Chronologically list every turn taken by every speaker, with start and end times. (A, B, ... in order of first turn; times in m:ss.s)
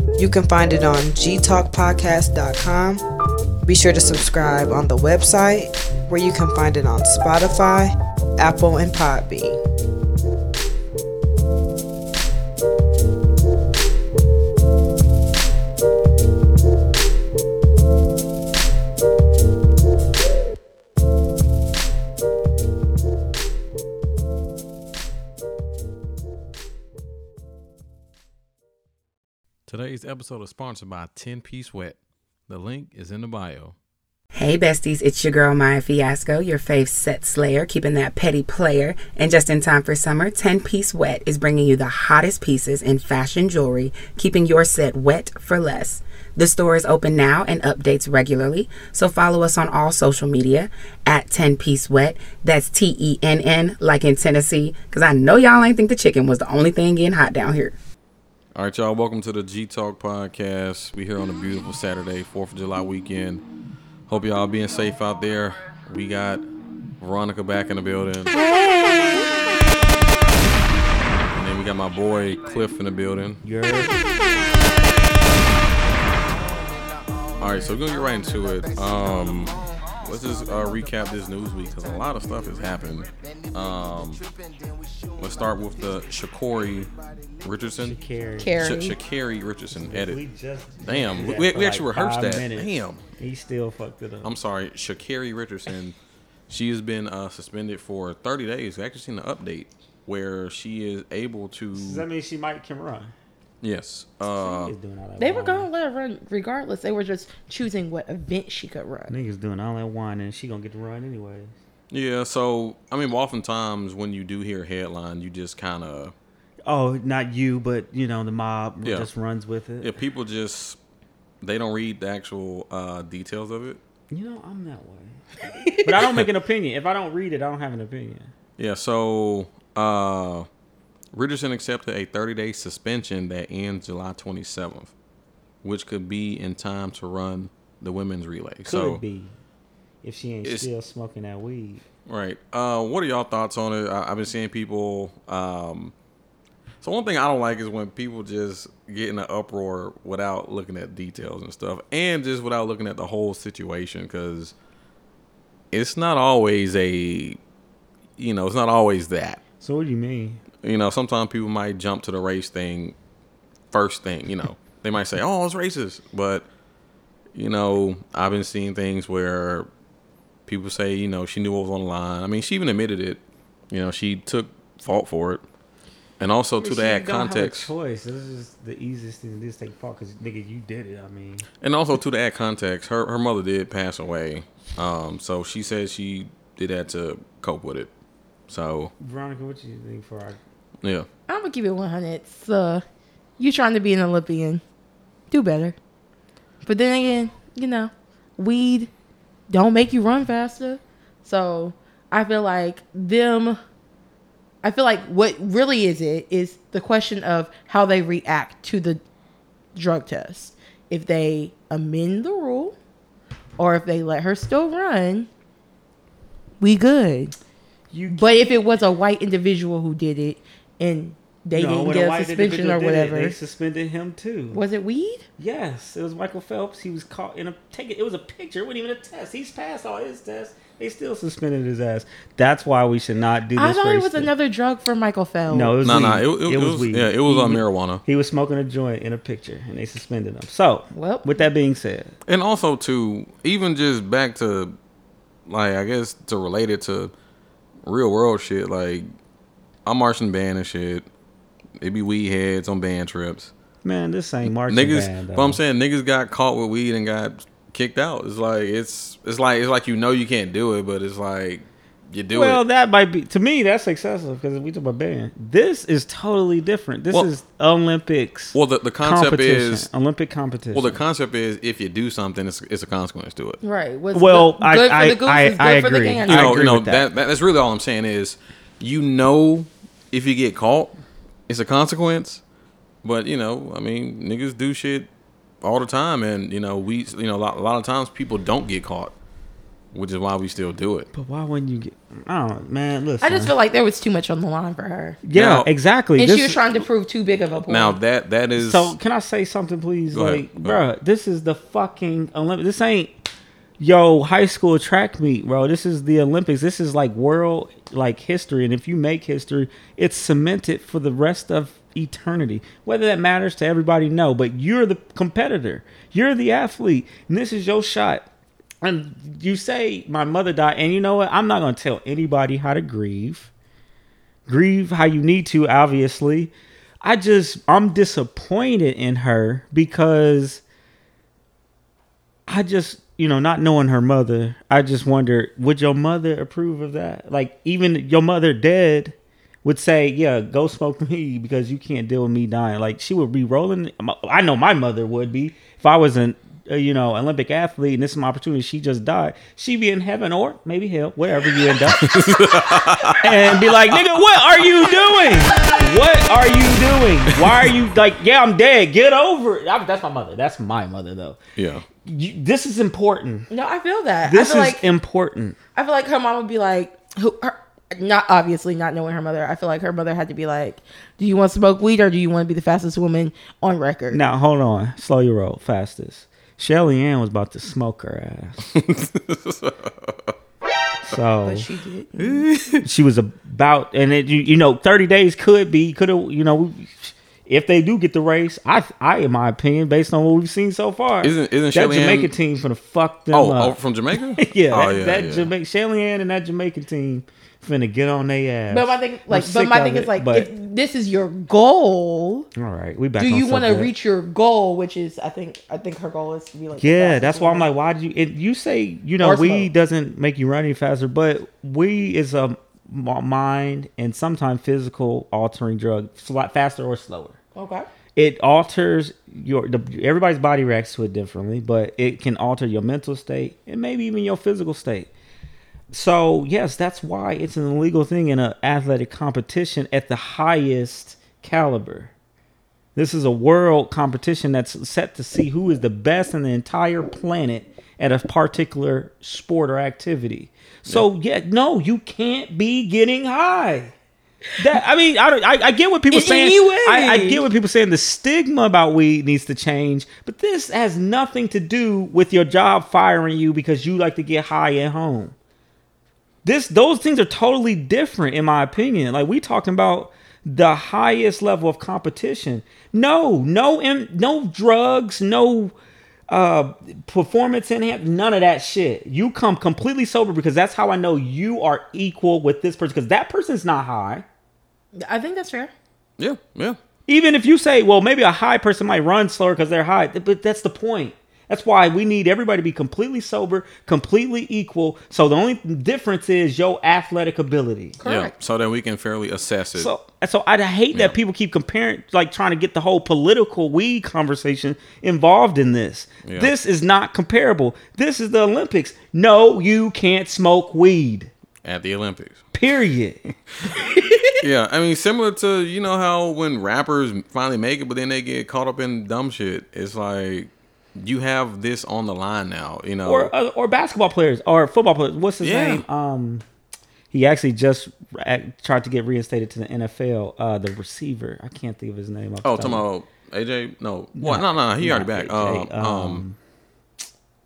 0:00.2-0:03.0 A
0:03.6-0:09.6 A
0:29.7-0:32.0 B
0:32.5-0:33.8 B
0:34.3-0:57.8 C
0:58.6-1:03.4 B
1:04.1-1:06.4 B
1:07.0-1:08.3 B
1:08.3-1:09.3 D
1:11.4-1:13.4 B
1:13.4-1:14.1 E
1:17.4-1:24.2 B
1:25.2-1:26.9 B
1:27.4-1:28.0 B
1:27.8-1:28.7 E
1:28.4-1:29.0 D
1:28.6-1:30.2 B
1:29.7-1:34.3 E
1:30.8-1:33.1 B
1:34.2-1:36.0 B
1:36.5-1:42.0 B
1:41.8-1:43.1 E
1:43.6-1:44.8 B
1:44.3-1:45.7 E
1:45.2-1:49.2 D
1:49.1-1:51.5 E
1:51.9-1:56.1 B
1:56.7-2:00.0 E
1:59.8-2:00.8 B
2:01.4-2:03.8 B
2:04.1-2:08.3 E
2:05.6-2:05.9 D
2:08.6-2:10.5 B
2:11.1-2:14.9 B
2:15.6-2:19.0 B
2:18.6-2:19.3 E
2:20.0-2:21.8 E
2:22.1-2:25.9 B
2:26.8-2:34.5 B
2:35.7-2:37.4 B
2:38.2-2:39.4 B
2:39.6-2:40.4 E
2:40.6-2:43.0 B
2:43.7-2:46.5 B
2:47.3-2:49.7 B
2:50.5-2:55.4 B
2:56.2-2:57.7 B
2:56.6-3:01.5 E
3:01.6-3:07.9 B
3:08.5-3:08.9 B
3:09.0-3:10.4 E
3:10.8-3:11.1 B
3:11.3-3:12.8 D
3:13.4-3:14.6 D
3:15.3-3:15.8 D
3:16.6-3:18.9 D
3:19.5-3:23.6 D
3:24.6-3:29.0 D
3:29.8-3:32.8 D
3:33.6-3:35.3 D
3:36.6-3:37.4 D
3:37.9-3:38.6 E
3:38.1-3:43.4 D
3:41.5-3:44.6 E
3:44.5-3:45.3 D
3:45.4-3:54.3 E
3:53.6-3:55.8 D
3:55.5-4:02.2 E
3:55.8-3:58.0 B
4:00.9-4:01.4 D
4:02.3-4:04.8 B
4:05.5-4:07.1 B
4:07.8-4:09.1 B
4:09.9-4:11.1 B
4:11.8-4:13.5 B
4:13.8-4:15.6 E
4:14.7-4:22.6 B
4:22.3-4:31.0 E
4:28.5-4:29.9 B
4:30.7-4:33.6 B
4:33.6-4:36.5 D
4:34.1-4:37.0 E
4:36.3-4:40.9 B
4:41.5-4:42.4 B
4:43.0-4:45.1 B
4:45.6-4:49.1 B
4:49.9-4:51.1 B
4:51.1-4:53.5 E
4:53.2-4:55.2 D
4:55.2-4:56.6 E
4:55.3-4:55.7 B
4:56.2-4:58.0 D
4:57.7-4:59.0 B
4:58.6-5:03.1 E
5:00.1-5:00.8 B
5:03.8-5:18.3 E
5:18.8-5:23.5 E
5:24.5-5:30.6 E
5:32.5-5:52.2 E
5:51.9-5:54.1 B
5:53.0-6:01.4 E
6:01.6-6:01.9 B
6:02.0-6:03.5 E
6:03.5-6:04.9 D
6:04.2-6:05.6 E
6:05.8-6:14.2 D
6:14.1-6:18.6 E
6:18.7-6:20.3 B
6:21.0-6:21.7 E
6:21.4-6:22.4 D
6:22.2-6:22.9 B
6:22.8-6:40.5 E
6:31.2-6:32.3 B
6:33.3-6:35.5 B
6:38.7-6:42.5 D
6:42.6-6:43.9 E
6:43.2-6:47.7 D
6:46.8-6:57.4 E
6:49.2-6:49.7 D
6:57.6-6:57.9 D
6:58.2-7:05.1 E
7:05.9-7:12.1 E
7:13.0-7:23.9 E
7:24.6-7:35.4 E
7:26.1-7:27.4 D
7:36.4-7:45.8 E
7:46.3-7:54.2 E
7:54.9-7:55.7 D
7:56.2-7:56.8 B
7:57.1-8:08.0 E
8:08.0-8:08.3 D
8:08.0-8:09.9 B
8:09.7-8:21.3 E
8:16.2-8:16.5 B
8:21.6-8:22.4 B
8:22.5-8:23.4 E
8:23.9-8:24.4 D
8:24.4-8:33.3 B
8:33.1-8:36.4 E
8:35.4-8:35.8 B
8:37.1-8:42.8 E
8:42.4-8:46.2 B
8:44.2-8:46.4 E